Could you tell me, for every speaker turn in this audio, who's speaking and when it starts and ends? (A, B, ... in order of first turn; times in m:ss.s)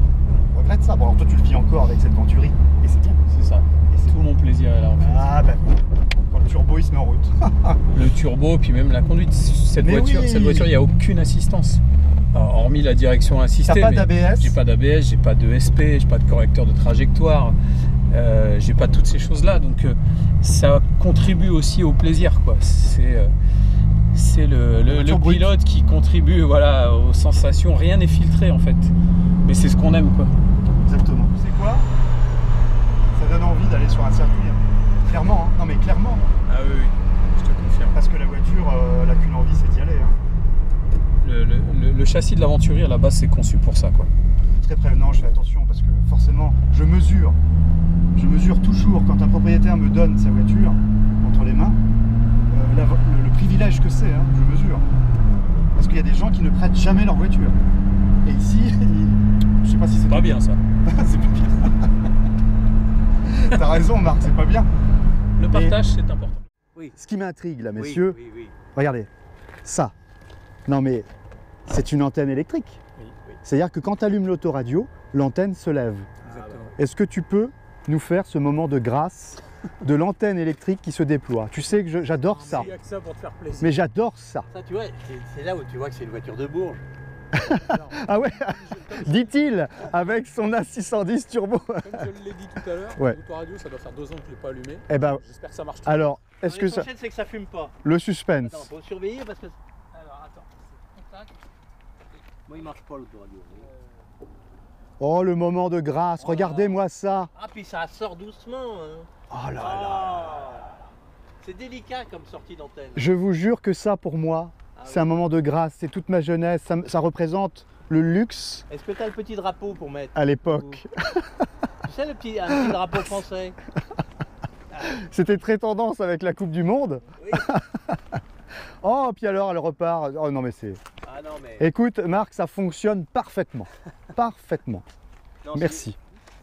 0:00.5-0:03.2 A
0:03.3-0:05.4 B
0:03.9-0:04.2 A
0:05.0-0:07.8 A
0:07.9-0:11.8 B
0:09.8-0:10.7 A
0:12.3-0:17.6 B
0:13.6-0:14.6 A
0:18.1-0:23.3 B
0:24.1-0:30.3 B
0:24.9-0:25.5 A
0:30.9-0:31.9 A
0:33.2-0:36.3 A
0:36.5-0:38.0 B
0:37.9-0:40.2 A
0:41.2-0:44.1 B
0:44.6-0:47.4 A
0:48.1-0:51.8 A
0:52.5-0:54.9 A
0:55.8-0:57.6 A
0:58.2-1:01.8 A
1:00.1-1:00.6 B
1:03.2-1:04.7 A
1:05.4-1:06.5 B
1:05.5-1:05.8 A
1:07.0-1:08.2 A
1:07.8-1:08.6 C
1:08.8-1:09.1 A
1:09.6-1:09.9 A
1:10.7-1:11.1 A
1:11.7-1:12.8 A
1:13.4-1:16.1 A
1:16.2-1:16.7 C
1:16.2-1:16.7 B
1:16.8-1:22.7 A
1:22.1-1:23.8 B
1:23.6-1:24.5 A
1:24.5-1:26.8 C
1:27.4-1:32.1 A
1:27.6-1:29.3 B
1:31.8-1:36.1 B
1:34.9-1:35.2 A
1:35.8-1:36.9 A
1:36.4-1:37.8 C
1:37.8-1:38.7 A
1:38.4-1:39.6 C
1:40.0-1:40.4 B
1:40.2-1:41.3 C
1:42.5-1:43.7 C
1:45.0-1:47.3 A
1:46.2-1:46.8 C
1:47.3-1:50.8 C
1:49.3-1:50.4 A
1:51.4-1:53.1 C
1:53.0-1:58.6 A
1:54.8-1:55.2 C
1:58.7-2:00.8 C
2:00.2-2:01.3 A
2:01.8-2:03.6 C
2:04.8-2:08.0 A
2:07.2-2:07.5 C
2:08.8-2:10.8 A
2:11.0-2:11.7 C
2:11.6-2:14.8 A
2:15.4-2:15.9 C
2:15.5-2:16.0 A